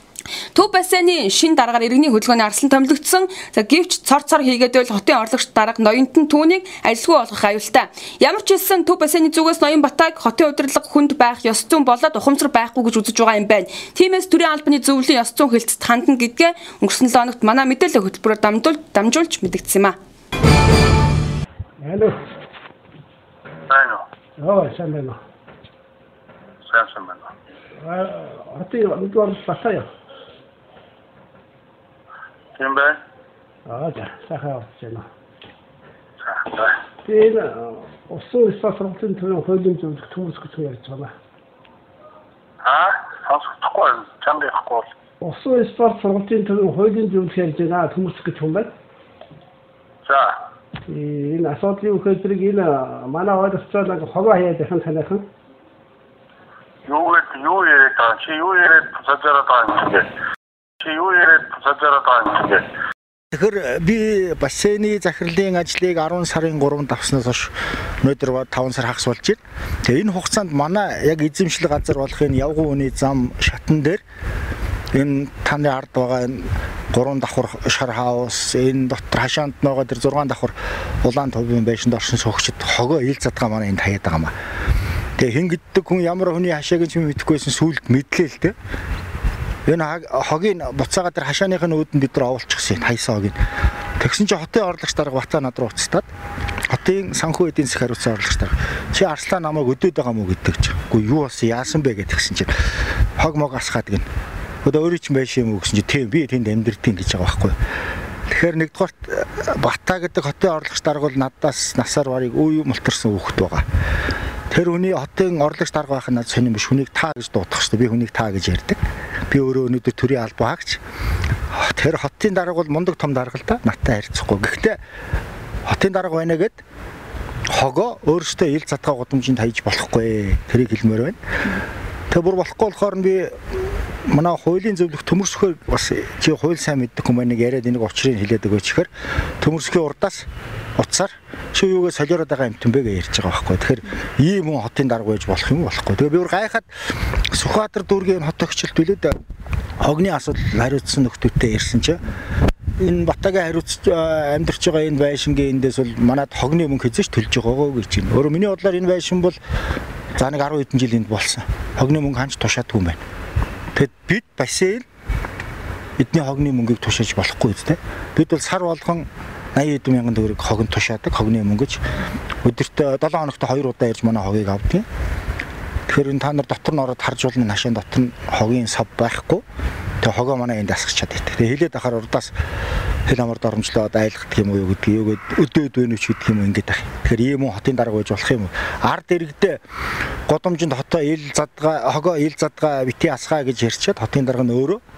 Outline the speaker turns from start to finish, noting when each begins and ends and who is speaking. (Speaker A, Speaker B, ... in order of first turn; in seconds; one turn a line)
Speaker A: 0.5-19.9
Speaker B: 21.8-22.1
Speaker C: 23.7-24.0
Speaker B: 24.4-25.2
Speaker C: 26.7-27.3
Speaker B: 27.8-29.9
Speaker C: 32.6-33.0
Speaker B: 33.6-35.0
Speaker C: 36.2-36.8
Speaker B: 37.0-41.1
Speaker C: 42.6-44.9
Speaker B: 45.2-48.7
Speaker C: 50.0-50.4
Speaker B: 50.9-55.2
Speaker C: 56.9-60.0
Speaker C: 60.8-62.6
Speaker D: 63.3-74.0
Speaker D: 74.9-84.3
Speaker D: 85.2-88.5
Speaker D: 89.7-93.4
Speaker D: 94.0-96.1
Speaker D: 96.7-104.0
Speaker D: 104.6-107.5
Speaker D: 108.3-113.6
Speaker D: 114.5-120.8
Speaker D: 121.5-124.8
Speaker D: 125.7-126.6
Speaker D: 127.5-131.6
Speaker D: 132.1-149.2
Speaker D: 149.8-152.0
Speaker D: 152.8-159.4
Speaker D: 160.1-163.0
Speaker D: 163.7-164.8
Speaker D: 166.0-171.8
Speaker D: 172.4-174.8
Speaker D: 175.9-179.4
Speaker D: 180.0-182.3
Speaker D: 183.0-189.6
Speaker D: 190.3-194.8